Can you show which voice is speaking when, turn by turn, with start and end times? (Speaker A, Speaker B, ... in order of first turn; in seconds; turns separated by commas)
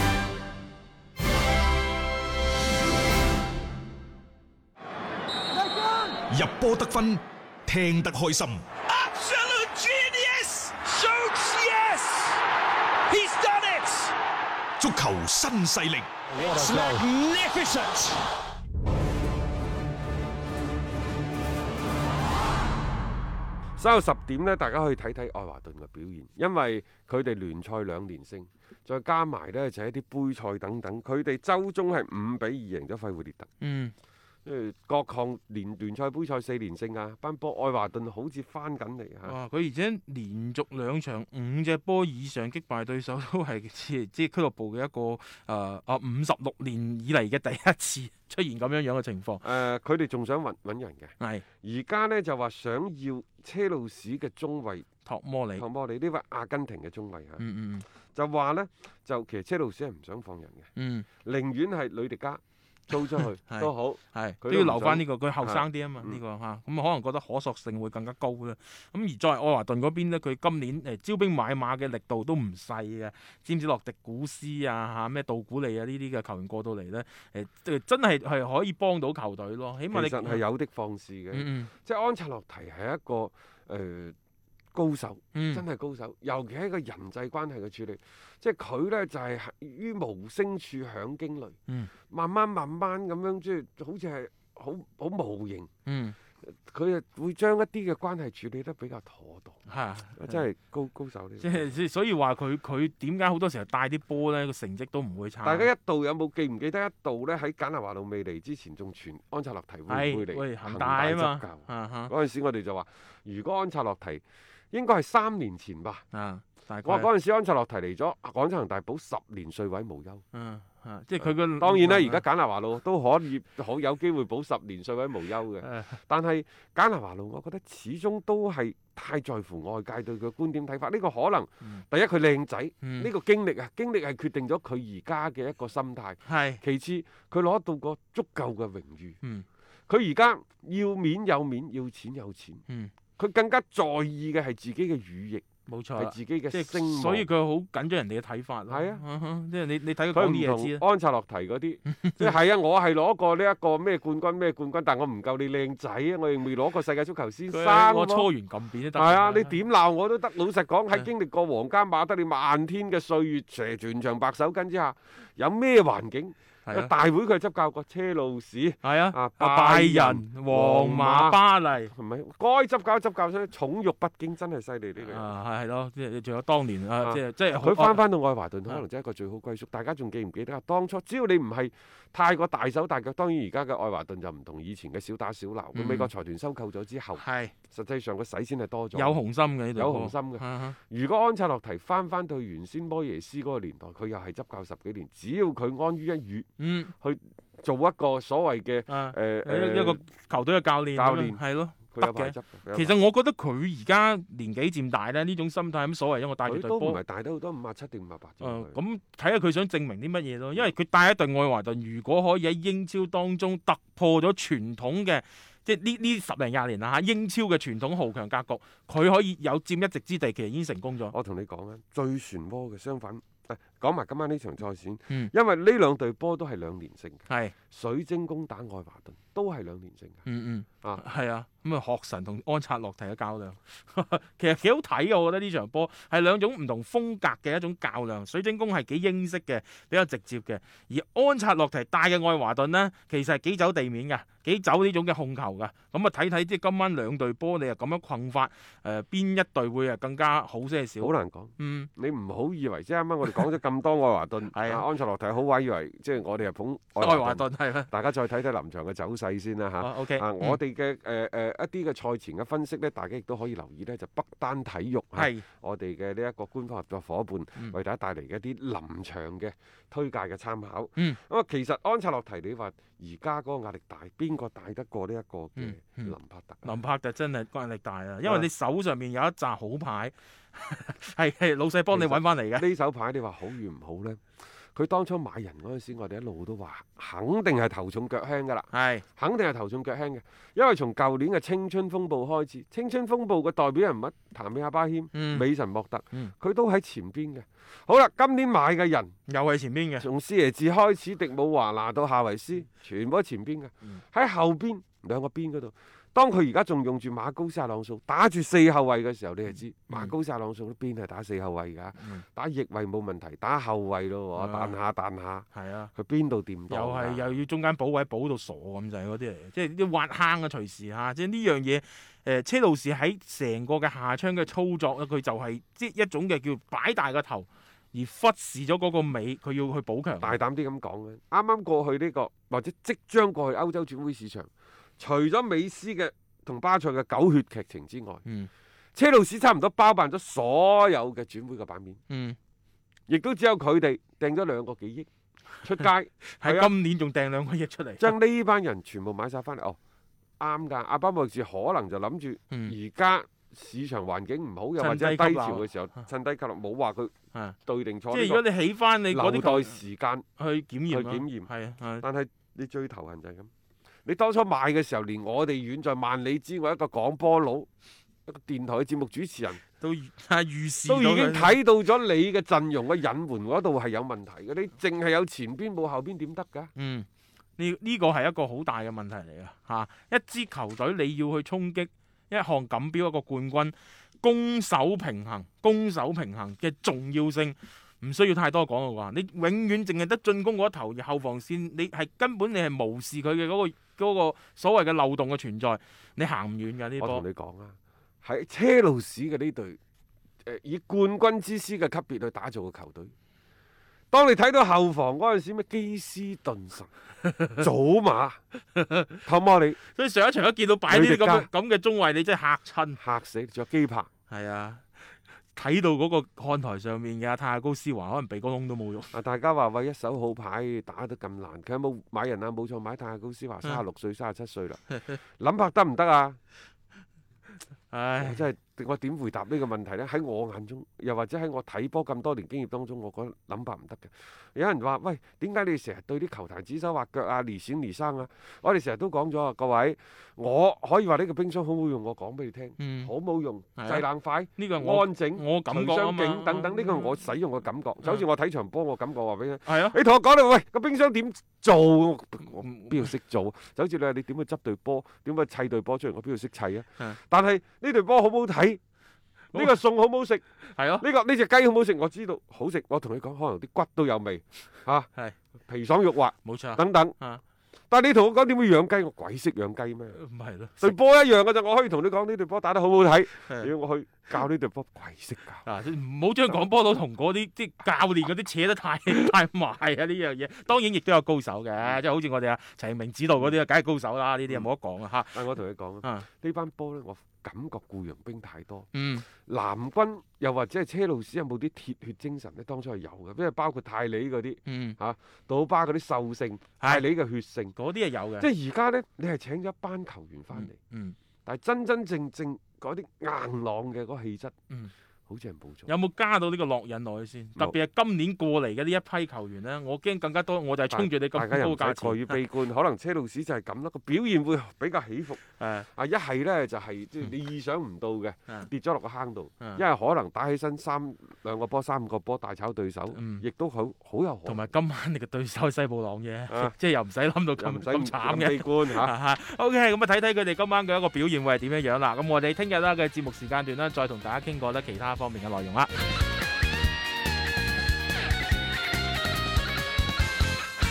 Speaker A: 5.5-6.3, Speaker B: 6.3-8.6, Speaker A: 8.9-12.4, Speaker A: 13.1-14.1, Speaker B: 14.8-18.1, Speaker A: 16.3-16.6, Speaker A: 17.3-18.0, Speaker C: 23.8-33.5, Speaker D: 33.6-33.9, Speaker C: 34.5-39.4, Speaker D: 39.2-49.4, Speaker C: 49.4-54.9, Speaker D: 55.0-55.6, Speaker C: 55.6-57.4, Speaker D: 57.4-57.9, Speaker C: 58.1-60.7, Speaker D: 60.8-61.1, Speaker C: 61.2-66.2, Speaker D: 63.1-80.4, Speaker C: 79.9-84.2, Speaker D: 81.3-81.7, Speaker C: 84.7-91.6, Speaker D: 85.3-85.6, Speaker C: 92.1-95.7, Speaker D: 95.9-96.2, Speaker C: 96.4-99.6, Speaker D: 99.7-100.4, Speaker C: 100.2-101.7, Speaker D: 101.4-105.7, Speaker C: 105.4-116.0, Speaker D: 109.9-112.1, Speaker D: 116.1-117.1, Speaker C: 116.8-120.2, Speaker D: 120.3-122.2, Speaker C: 121.2-139.2, Speaker D: 125.6-125.9, Speaker D: 132.8-133.1, Speaker D: 136.3-136.6, Speaker C: 139.9-142.6, Speaker C: 143.2-145.4, Speaker D: 145.7-150.8, Speaker C: 146.0-147.3, Speaker C: 148.7-149.0, Speaker C: 150.1-158.3, Speaker D: 151.9-152.3, Speaker D: 157.5-159.5, Speaker C: 158.9-175.3, Speaker D: 168.8-171.9, Speaker D: 175.0-178.0, Speaker C: 177.0-189.2, Speaker D: 185.7-186.1, Speaker D: 187.2-187.5, Speaker D: 188.9-190.8, Speaker C: 189.8-200.0, Speaker D: 196.6-196.9, Speaker D: 198.9-207.0, Speaker C: 201.0-201.4, Speaker C: 201.9-202.9, Speaker C: 206.5-208.8, Speaker D: 208.4-221.1, Speaker C: 221.1-230.2, Speaker D: 227.3-227.5, Speaker D: 230.2-251.9, Speaker C: 251.0-276.7, Speaker D: 254.5-254.8, Speaker D: 257.0-257.9, Speaker D: 259.8-260.6, Speaker D: 265.1-265.4, Speaker D: 275.6-282.7, Speaker C: 281.9-299.1, Speaker D: 288.7-289.0, Speaker D: 295.1-295.5, Speaker D: 299.3-300.1, Speaker C: 300.0-317.2, Speaker D: 312.0-312.2, Speaker D: 314.4-314.8, Speaker D: 315.5-315.9, Speaker D: 316.7-330.4, Speaker C: 330.2-338.2, Speaker D: 338.2-338.5, Speaker C: 338.9-342.0, Speaker D: 342.1-342.4, Speaker C: 343.1-345.1, Speaker C: 345.6-346.7, Speaker D: 346.4-348.1, Speaker C: 348.0-349.8, Speaker C: 350.4-357.1, Speaker D: 354.8-355.6, Speaker C: 357.6-358.4, Speaker D: 358.1-359.8, Speaker C: 359.1-360.3, Speaker D: 360.4-362.1, Speaker C: 360.9-361.5, Speaker C: 362.0-363.5, Speaker C: 364.1-367.7, Speaker C: 368.3-369.6, Speaker D: 369.8-371.6, Speaker C: 370.9-376.7, Speaker D: 376.8-377.1, Speaker D: 377.6-397.2, Speaker C: 397.0-399.8, Speaker C: 400.4-403.1, Speaker C: 404.1-406.9, Speaker D: 407.2-407.6, Speaker C: 407.6-408.4, Speaker D: 408.8-409.2, Speaker C: 409.2-409.8, Speaker D: 409.9-413.0, Speaker C: 410.9-411.5, Speaker C: 413.0-414.1, Speaker D: 414.3-414.9, Speaker D: 415.6-419.1, Speaker C: 419.1-426.4, Speaker D: 427.9-428.4, Speaker C: 428.2-458.8, Speaker D: 442.8-443.1, Speaker D: 443.8-444.1, Speaker D: 444.6-447.1, Speaker D: 449.7-450.0, Speaker D: 452.6-453.1, Speaker C: 459.5-460.4, Speaker D: 460.7-461.1, Speaker C: 461.0-465.1, Speaker C: 465.7-467.2, Speaker D: 466.4-467.4, Speaker C: 467.9-470.2, Speaker D: 470.1-470.9, Speaker C: 470.8-475.7, Speaker D: 475.6-485.5, Speaker C: 485.3-497.8, Speaker D: 488.9-489.3, Speaker D: 494.7-495.0, Speaker D: 497.8-498.5, Speaker C: 498.4-500.8, Speaker D: 500.5-501.2, Speaker C: 501.5-504.5, Speaker C: 505.3-505.9, Speaker D: 505.9-512.4, Speaker C: 510.9-524.6, Speaker D: 515.6-515.9, Speaker D: 523.1-523.5, Speaker D: 524.5-535.9, Speaker C: 527.6-529.1